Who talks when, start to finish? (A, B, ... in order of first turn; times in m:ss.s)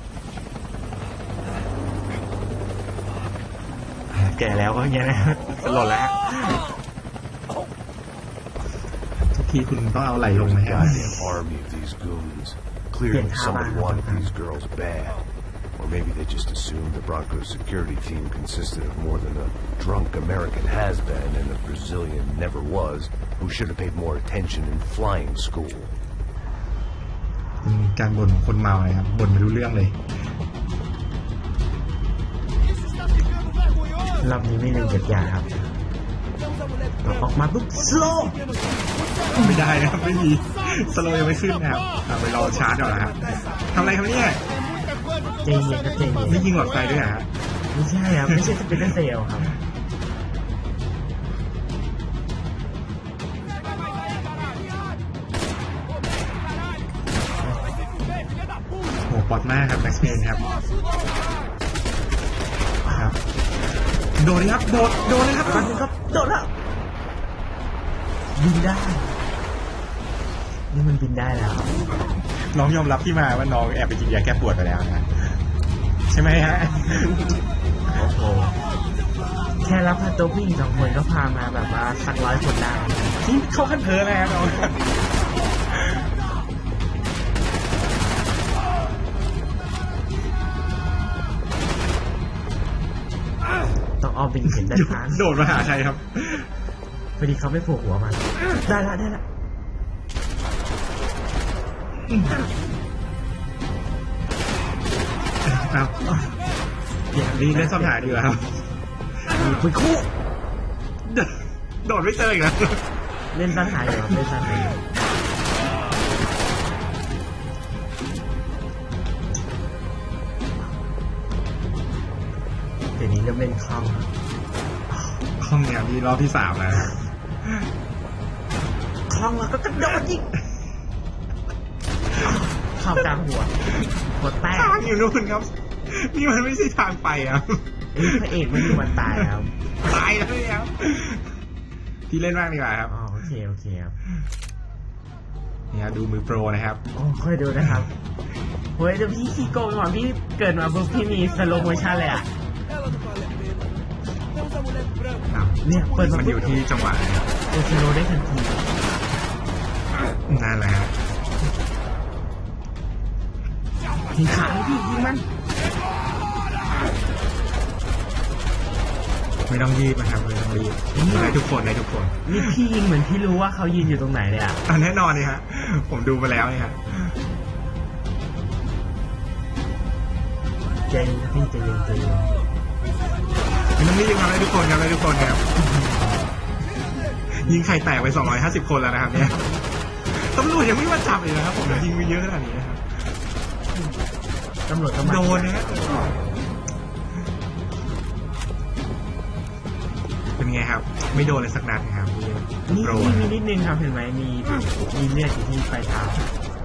0:04.1-0:06.6 A
0:09.3-0:11.1 A
0:10.3-0:26.0 B
0:13.1-0:14.3 C
0:27.6-0:30.0 A
0:34.2-0:35.7 C
0:37.0-0:38.4 C
0:39.4-0:44.4 A
0:45.4-0:46.5 C
0:46.1-0:47.3 A
0:47.7-0:49.6 C
0:59.1-1:00.5 A
1:02.8-1:03.1 C
1:02.8-1:03.2 A
1:04.2-1:05.7 A
1:05.5-1:06.5 C
1:08.3-1:09.2 C
1:10.7-1:11.7 C
1:12.4-1:15.2 A
1:16.1-1:17.3 A
1:17.9-1:18.6 C
1:19.6-1:23.2 C
1:23.2-1:24.9 A
1:34.0-1:35.2 C
1:34.6-1:36.5 A
1:37.2-1:39.2 C
1:42.1-1:42.4 A
1:45.4-1:46.0 A
1:47.1-1:48.3 C
1:47.2-1:48.6 A
1:49.3-1:50.1 C
1:51.0-1:52.8 A
1:53.3-1:54.8 C
2:03.0-2:04.1 C
2:04.9-2:05.2 C
2:05.4-2:07.6 A
2:09.1-2:10.3 C
2:12.2-2:14.8 C
2:14.5-2:19.2 A
2:17.9-2:19.5 C
2:19.8-2:21.3 A
2:22.1-2:23.0 A
2:22.9-2:24.0 C
2:25.7-2:26.8 A
2:26.9-2:27.9 C
2:28.8-2:32.3 C
2:35.3-2:37.3 A
2:35.6-2:36.6 C
2:37.5-2:38.6 C
2:40.3-2:41.0 A
2:44.1-2:45.3 C
2:49.5-2:52.6 A
2:50.9-2:51.4 C
2:52.2-2:54.6 C
2:54.6-2:57.2 A
3:00.9-3:02.4 C
3:03.7-3:05.4 A
3:05.7-3:06.0 C
3:07.3-3:13.1 A
3:13.7-3:14.0 C
3:14.6-3:16.2 C
3:15.0-3:16.0 A
3:20.4-3:23.3 A
3:22.7-3:26.3 C